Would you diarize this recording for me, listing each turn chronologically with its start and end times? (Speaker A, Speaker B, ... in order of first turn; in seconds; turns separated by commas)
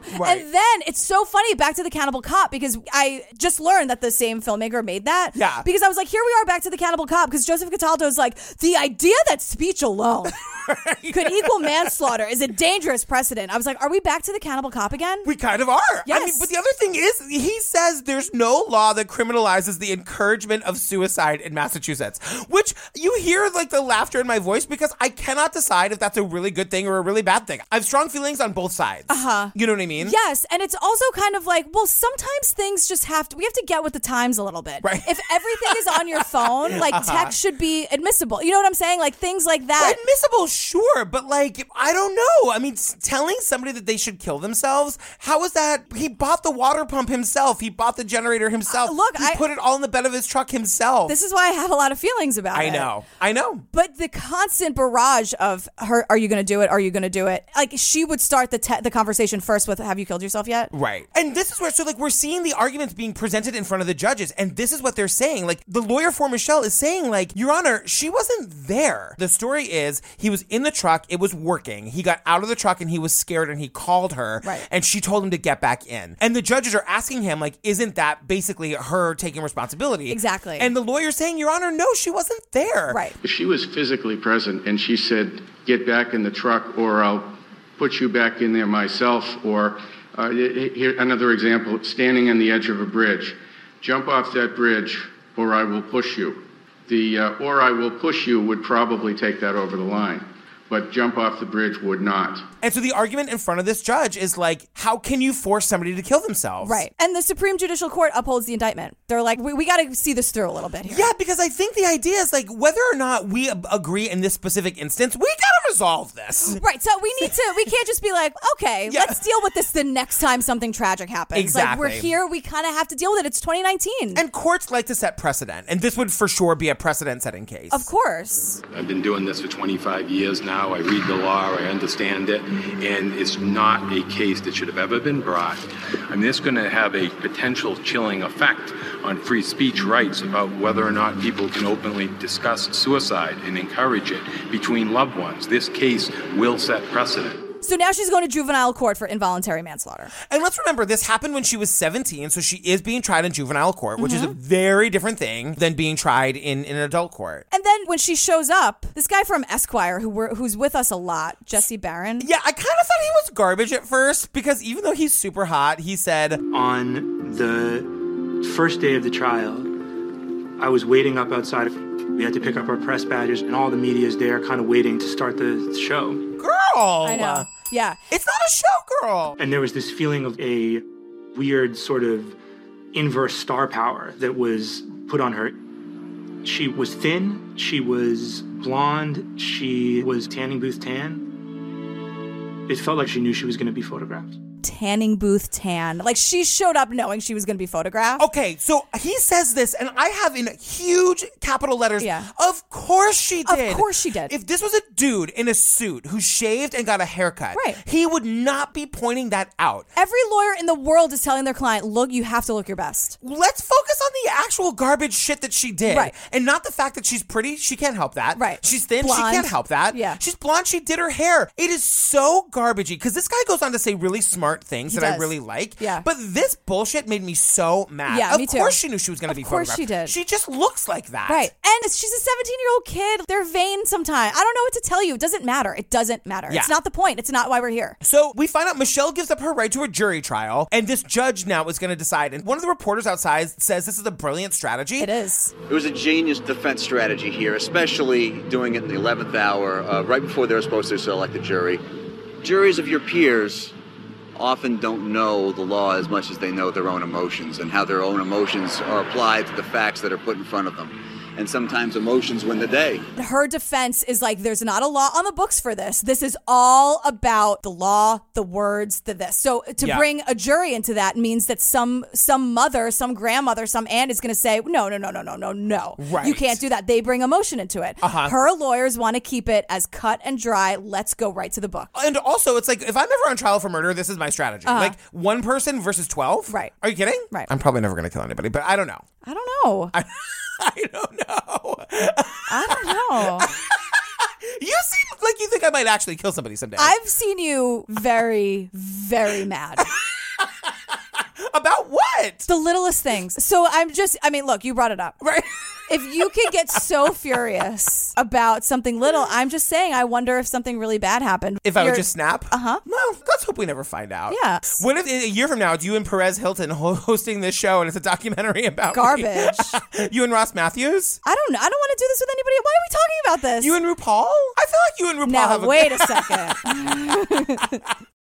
Speaker A: 0.1-10.3, Speaker B: 0.1-0.4, Speaker B: 5.3-5.7, Speaker B: 10.4-11.9, Speaker A: 11.1-15.3, Speaker B: 15.2-30.1, Speaker A: 16.1-16.5, Speaker A: 29.1-40.0, Speaker B: 34.8-37.3, Speaker B: 39.8-51.1, Speaker A: 48.7-49.4, Speaker A: 51.1-52.9, Speaker B: 52.5-53.6, Speaker A: 53.7-60.7, Speaker B: 60.7-83.0, Speaker A: 80.1-80.7, Speaker A: 82.9-83.2, Speaker C: 83.2-102.5, Speaker B: 102.6-106.8, Speaker A: 106.6-111.1, Speaker B: 110.8-116.6, Speaker A: 116.5-124.2, Speaker B: 118.9-119.2, Speaker B: 121.3-122.1, Speaker B: 124.1-127.9, Speaker A: 127.7-128.6, Speaker D: 128.7-147.4, Speaker A: 147.6-150.1, Speaker B: 150.2-157.4, Speaker A: 154.0-154.3, Speaker A: 157.5-162.3, Speaker B: 162.2-166.4, Speaker E: 166.5-169.7, Speaker E: 170.6-176.2, Speaker B: 176.4-177.5, Speaker A: 177.0-178.0, Speaker B: 178.1-179.4, Speaker E: 179.4-182.3, Speaker E: 182.9-185.6, Speaker E: 186.4-191.3, Speaker E: 192.7-194.4, Speaker A: 194.6-198.2, Speaker B: 198.2-209.9, Speaker A: 202.0-202.3, Speaker A: 203.4-204.3, Speaker A: 207.5-207.8, Speaker A: 209.9-213.2, Speaker B: 213.2-231.5, Speaker A: 215.9-216.1, Speaker A: 218.3-220.2, Speaker A: 224.9-226.0, Speaker A: 228.1-230.1, Speaker A: 231.3-238.0, Speaker B: 238.0-245.1, Speaker A: 245.0-245.5, Speaker F: 245.7-251.8, Speaker F: 252.4-253.7, Speaker F: 254.3-263.0, Speaker A: 263.1-281.9, Speaker B: 269.8-270.0, Speaker B: 276.0-276.6, Speaker B: 278.0-278.3, Speaker B: 281.9-289.1, Speaker A: 284.6-284.9, Speaker A: 286.5-286.7, Speaker A: 289.2-289.9, Speaker B: 289.9-296.9, Speaker A: 292.5-293.5, Speaker A: 296.8-299.9, Speaker B: 300.4-300.7, Speaker B: 301.2-302.5, Speaker A: 302.5-305.2, Speaker B: 305.2-305.5, Speaker A: 305.9-312.8, Speaker B: 311.6-321.2, Speaker A: 314.3-314.8, Speaker A: 318.9-319.8, Speaker A: 321.2-323.7, Speaker B: 323.6-326.6, Speaker A: 325.2-327.8